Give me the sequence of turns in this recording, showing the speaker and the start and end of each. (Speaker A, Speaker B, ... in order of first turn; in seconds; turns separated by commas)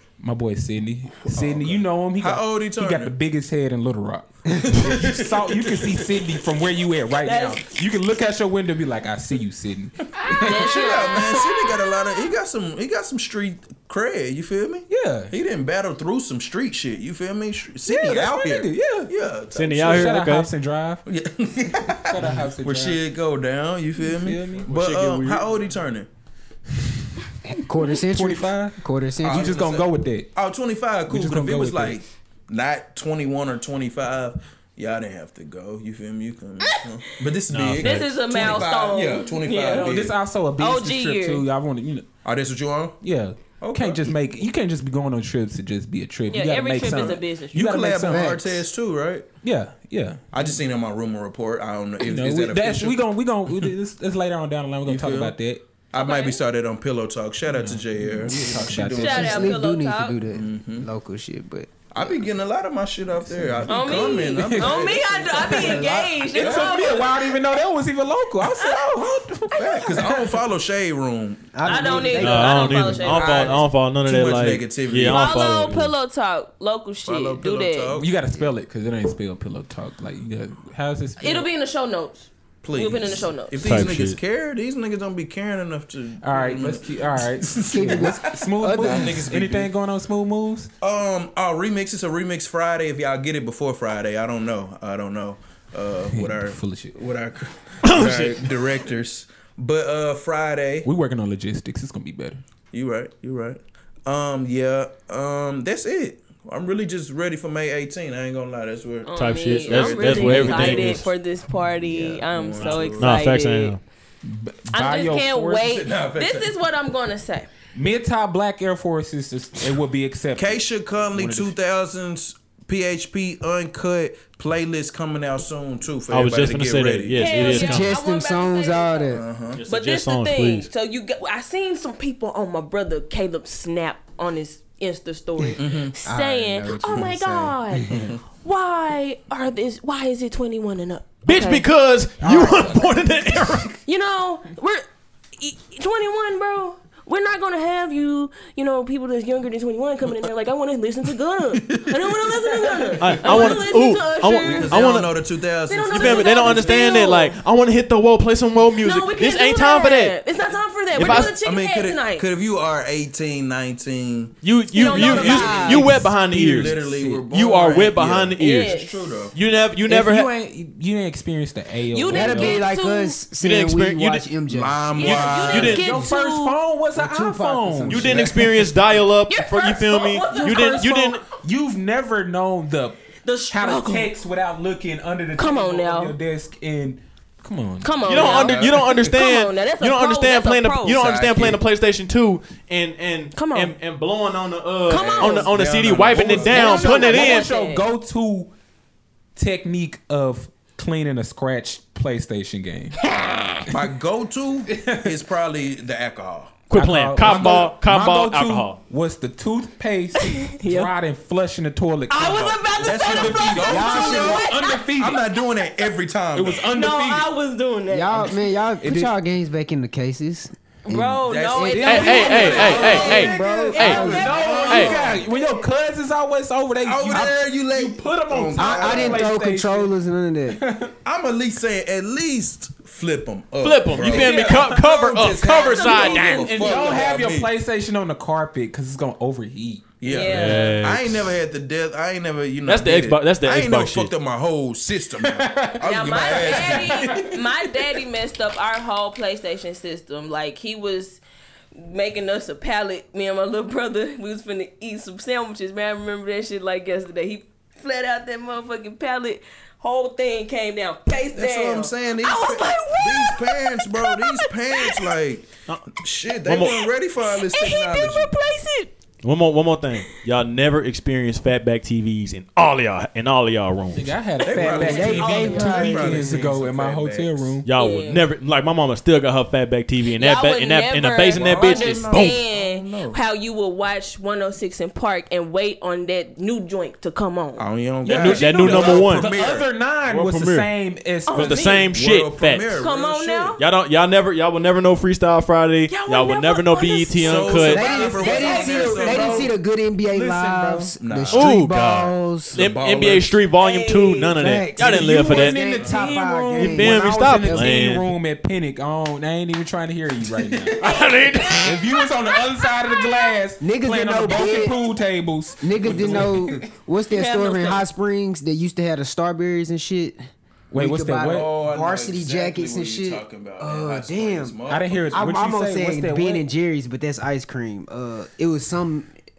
Speaker A: 0.2-11.2, Speaker B: 1.2-3.1, Speaker B: 4.5-6.2, Speaker C: 7.2-7.7, Speaker C: 10.3-12.3, Speaker B: 10.4-20.1, Speaker A: 14.9-15.3, Speaker A: 17.9-19.1, Speaker D: 19.5-20.5, Speaker A: 19.8-21.0, Speaker B: 21.1-26.1, Speaker A: 21.9-23.0, Speaker A: 24.0-25.6, Speaker D: 24.8-25.1, Speaker E: 27.4-29.6, Speaker A: 27.7-30.3, Speaker B: 29.2-40.1, Speaker A: 31.1-32.0, Speaker D: 37.5-38.6, Speaker C: 37.8-40.0, Speaker A: 39.5-42.1, Speaker C: 40.6-41.4, Speaker B: 42.2-43.0, Speaker A: 43.0-48.4, Speaker B: 43.6-44.1, Speaker C: 46.3-47.7, Speaker B: 46.8-49.3, Speaker E: 48.0-48.6, Speaker A: 49.4-50.5, Speaker B: 50.3-53.7, Speaker A: 52.0-55.6, Speaker B: 54.8-55.3, Speaker B: 55.9-59.5, Speaker C: 55.9-56.4, Speaker A: 57.5-59.5, Speaker C: 58.9-60.2, Speaker E: 59.1-62.1, Speaker B: 60.3-60.9, Speaker B: 61.9-66.9, Speaker A: 63.3-70.3, Speaker C: 63.7-67.3, Speaker C: 68.4-69.0, Speaker B: 69.5-72.2, Speaker C: 69.5-70.0, Speaker E: 71.5-73.1, Speaker C: 71.7-73.6, Speaker D: 72.2-75.9, Speaker B: 73.0-75.6, Speaker C: 75.1-77.9, Speaker B: 77.0-78.2, Speaker A: 77.9-81.5, Speaker C: 81.2-83.8, Speaker B: 82.6-89.7, Speaker D: 83.6-84.2, Speaker A: 86.2-90.7, Speaker E: 87.7-89.2, Speaker B: 90.8-100.9, Speaker A: 96.1-97.0, Speaker D: 97.8-98.4, Speaker A: 100.8-102.4, Speaker B: 102.7-111.1, Speaker C: 109.0-113.8, Speaker D: 109.1-111.0, Speaker A: 110.3-110.8, Speaker B: 111.8-113.2, Speaker D: 113.0-113.8, Speaker A: 114.2-115.7, Speaker C: 114.7-117.5, Speaker B: 115.6-116.5, Speaker A: 117.7-121.5, Speaker B: 120.3-127.5, Speaker D: 126.1-127.9, Speaker C: 127.1-141.7, Speaker E: 127.3-129.2, Speaker B: 129.1-129.6, Speaker D: 129.5-130.7, Speaker B: 135.6-135.9, Speaker E: 136.0-138.1, Speaker B: 137.9-138.2, Speaker D: 141.2-143.8, Speaker A: 142.2-142.9, Speaker C: 143.8-144.8, Speaker C: 145.4-154.9, Speaker B: 151.6-153.6, Speaker D: 152.9-155.1, Speaker B: 154.4-157.2, Speaker C: 155.7-157.3, Speaker D: 155.9-160.1, Speaker C: 158.8-162.3, Speaker D: 160.9-161.3, Speaker B: 160.9-164.3, Speaker D: 164.4-168.8, Speaker C: 164.7-165.9, Speaker E: 164.9-165.9, Speaker B: 164.9-169.3, Speaker A: 166.5-167.2, Speaker C: 168.4-169.3, Speaker D: 169.3-170.3, Speaker A: 169.9-172.6, Speaker C: 171.9-173.2, Speaker E: 172.1-175.2, Speaker D: 173.3-174.3, Speaker B: 174.5-175.8, Speaker C: 174.9-176.6, Speaker D: 175.0-175.9, Speaker A: 175.5-178.6, Speaker E: 176.9-178.9, Speaker D: 177.9-181.2, Speaker C: 179.3-180.8, Speaker A: 180.3-188.5, Speaker C: 183.2-184.1, Speaker C: 185.3-186.2, Speaker C: 187.8-191.1, Speaker D: 188.0-197.5, Speaker B: 188.1-188.9, Speaker B: 190.9-191.6, Speaker C: 193.3-193.7, Speaker C: 194.9-195.5, Speaker B: 194.9-197.1, Speaker A: 196.1-198.5, Speaker C: 196.1-197.8, Speaker A: 199.3-203.0, Speaker C: 203.0-203.7, Speaker B: 203.7-206.6, Speaker A: 204.7-205.1, Speaker D: 206.7-208.8, Speaker A: 206.7-215.2, Speaker B: 207.2-207.5, Speaker C: 210.2-210.9, Speaker C: 212.1-215.4, Speaker B: 212.8-216.6, Speaker E: 213.6-214.5, Speaker A: 216.3-217.3, Speaker C: 216.7-218.4, Speaker E: 217.9-225.2, Speaker A: 218.8-219.1, Speaker C: 220.8-225.6, Speaker B: 221.3-223.2, Speaker A: 221.7-229.9, Speaker D: 221.8-224.1, Speaker B: 224.0-225.1, Speaker D: 224.7-224.9, Speaker B: 226.8-229.3, Speaker E: 228.5-230.6, Speaker A: 230.5-230.9, Speaker B: 231.0-237.5, Speaker D: 233.6-236.5, Speaker A: 233.9-234.9, Speaker C: 235.4-237.1, Speaker A: 236.1-239.9, Speaker B: 240.0-247.2, Speaker C: 240.0-240.8, Speaker D: 240.2-241.4, Speaker D: 242.6-244.1, Speaker A: 245.2-245.8, Speaker C: 245.8-251.2, Speaker A: 246.4-247.7, Speaker C: 251.8-265.2, Speaker B: 261.3-268.3, Speaker D: 266.4-266.8, Speaker C: 266.6-268.9, Speaker D: 269.2-274.1, Speaker A: 273.9-277.7, Speaker B: 274.4-277.6, Speaker C: 274.5-276.0, Speaker E: 274.6-276.5, Speaker D: 277.6-282.4, Speaker C: 277.7-278.2, Speaker C: 280.1-288.1, Speaker B: 281.3-283.2, Speaker B: 287.6-289.7, Speaker A: 288.0-291.8, Speaker D: 288.1-289.3, Speaker D: 290.1-290.7, Speaker C: 291.3-291.9, Speaker D: 291.3-292.8, Speaker B: 291.9-293.6, Speaker C: 292.8-293.6, Speaker D: 293.6-297.9, Speaker C: 295.9-298.9, Speaker B: 297.2-299.5, Speaker E: 297.7-302.6, Speaker A: 297.8-300.9, Speaker B: 301.0-301.5, Speaker D: 301.3-305.8, Speaker B: 302.5-303.4, Speaker C: 303.6-304.4, Speaker E: 304.4-307.8, Speaker A: 304.8-310.9, Speaker D: 306.5-308.1, Speaker D: 310.8-311.8, Speaker C: 310.8-313.3, Speaker A: 311.6-316.7, Speaker E: 313.6-314.8, Speaker E: 315.6-320.2, Speaker C: 317.1-317.9, Speaker A: 320.7-321.5, Speaker E: 320.7-324.6, Speaker B: 321.2-325.3, Speaker A: 324.7-326.4, Speaker E: 325.1-329.1